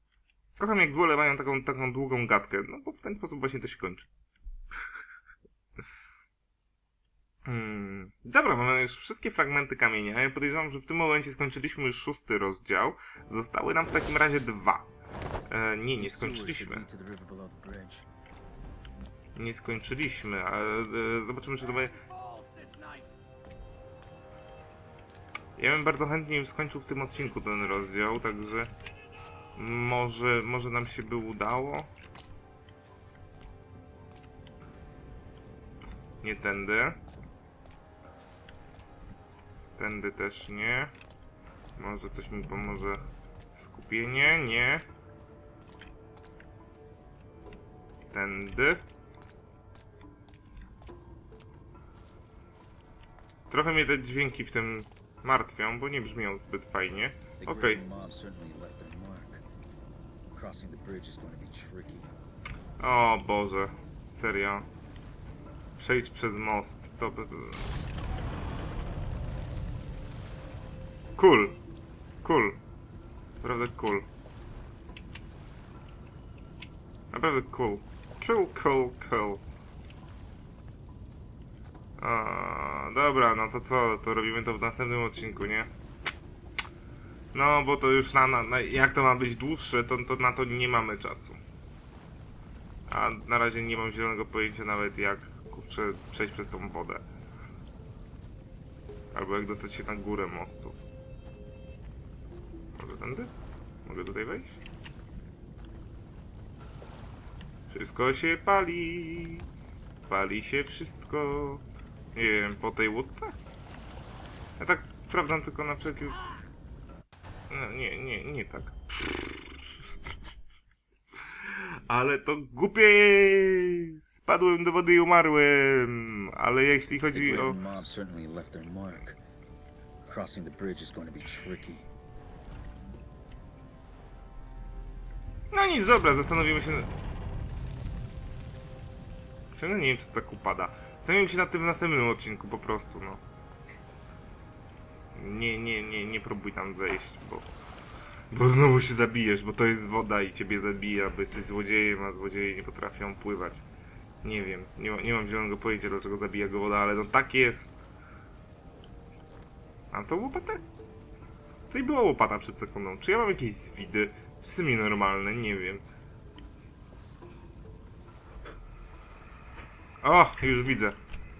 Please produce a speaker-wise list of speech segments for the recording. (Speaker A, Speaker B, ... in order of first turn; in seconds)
Speaker A: 0.6-4.1, 7.5-14.9, 15.5-16.9, 19.4-22.0, 25.6-28.7, 29.6-31.9, 36.2-37.0, 39.8-40.9, 41.8-43.0, 43.5-44.8, 48.1-48.8, 53.5-57.8, 62.8-64.7, 65.8-67.7, 71.2-71.6, 72.2-72.6, 73.4-74.0, 77.1-79.4, 82.0-85.7, 87.3-91.4, 92.9-97.0, 99.1-100.8, 102.8-103.3, 103.8-104.6, 107.7-109.5, 110.1-113.3, 114.6-116.2, 117.5-119.6, 121.2-127.6, 135.5-136.9, 139.5-143.2, 145.1-147.5, 148.3-153.6, 154.2-157.7, 159.9-160.6, 161.7-165.8, 170.0-171.0
Speaker B: 15.9-18.1, 57.4-59.4, 60.3-62.1, 127.1-129.2, 130.1-131.9